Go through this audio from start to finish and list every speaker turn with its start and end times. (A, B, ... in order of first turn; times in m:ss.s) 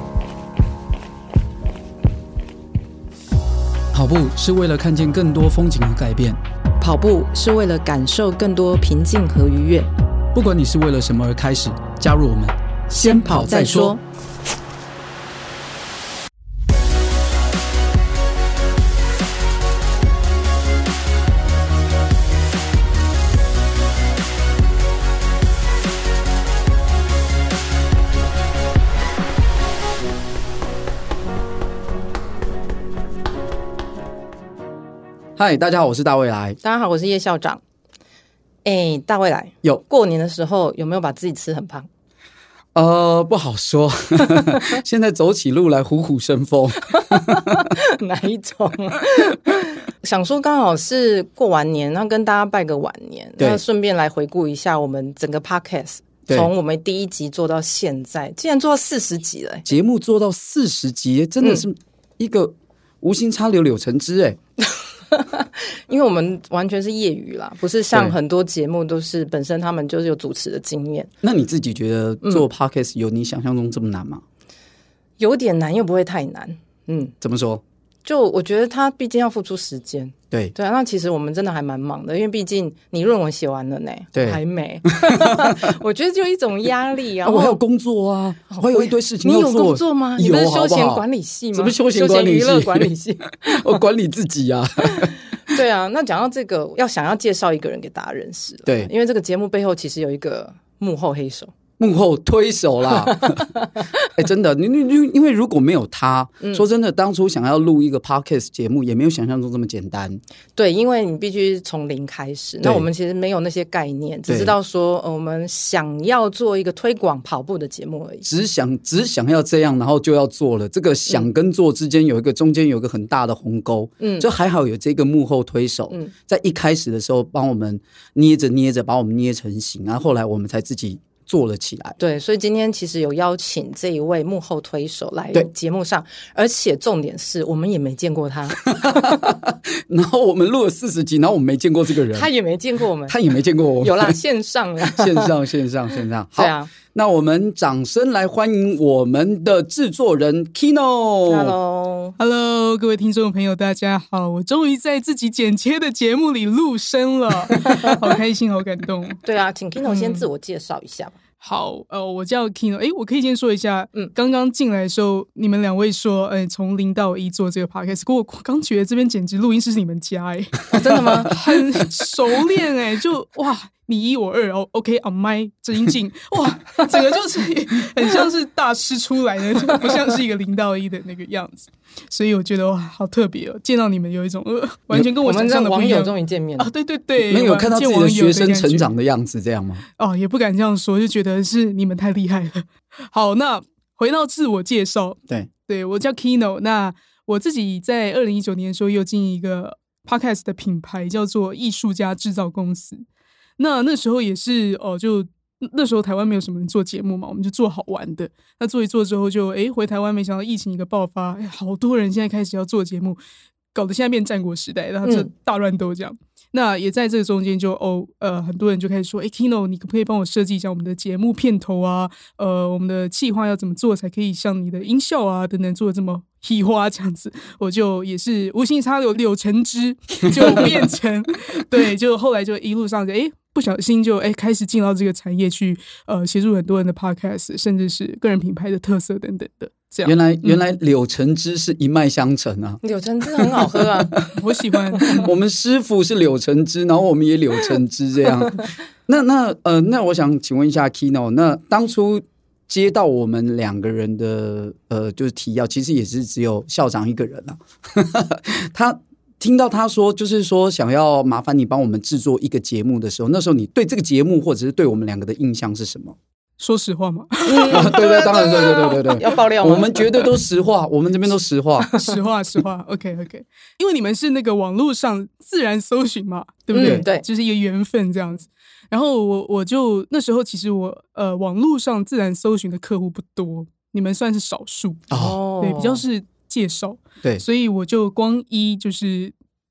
0:03.9-0:06.4 A
0:06.8-0:09.9 B
0:10.3-0:14.0 A
0:12.9-0:14.0 B
0:35.4-0:36.6 A
0:36.6-0:37.6 B
0:38.6-0:41.9 B
0:42.8-0:47.7 A
0:44.3-0:44.6 B
0:47.0-0:59.7 B
0:59.7-1:04.4 A
1:05.1-1:11.1 B
1:11.2-1:14.2 A
1:15.2-1:17.1 B
1:17.2-1:17.6 A
1:18.0-1:27.6 B
1:24.1-1:25.7 A
1:27.2-1:35.2 A
1:28.5-1:33.8 B
1:34.8-1:41.5 B
1:41.8-1:43.5 A
1:43.0-1:43.9 B
1:44.2-1:50.2 A
1:50.6-1:58.3 B
1:54.3-1:54.5 A
1:58.2-2:12.0 A
2:04.0-2:04.3 B
2:12.0-2:19.2 B
2:18.6-2:22.3 A
2:22.1-2:23.2 B
2:23.1-2:24.2 A
2:23.8-2:25.3 B
2:24.8-2:31.5 A
2:26.4-2:26.7 B
2:31.3-2:32.2 B
2:32.2-2:39.2 C
2:37.7-2:38.0 B
2:39.2-2:41.2 B
2:39.8-2:40.3 C
2:41.4-3:08.9 C
2:50.7-2:51.4 B
2:56.8-2:57.2 B
2:59.7-3:00.1 B
3:05.2-3:06.7 B
3:07.2-3:09.8 A
3:10.0-3:23.0 C
3:23.6-3:33.2 C
3:33.7-4:00.6 C
3:35.0-3:35.3 B
3:50.2-3:50.8 A
4:00.0-4:02.8 A
4:02.8-4:04.3 B
4:03.3-4:04.3 A
4:04.4-4:05.3 C
4:05.0-4:05.3 B
4:05.1-4:26.2 A
4:08.3-4:08.6 B
4:26.6-4:28.0 C
4:27.5-4:30.3 B
4:27.7-4:31.9 A
4:31.8-4:32.2 B
4:32.0-4:45.1 C
4:36.7-4:37.2 B
4:36.8-4:37.0 A
4:45.1-4:45.4 A
4:45.1-4:46.0 B
4:45.6-4:49.3 C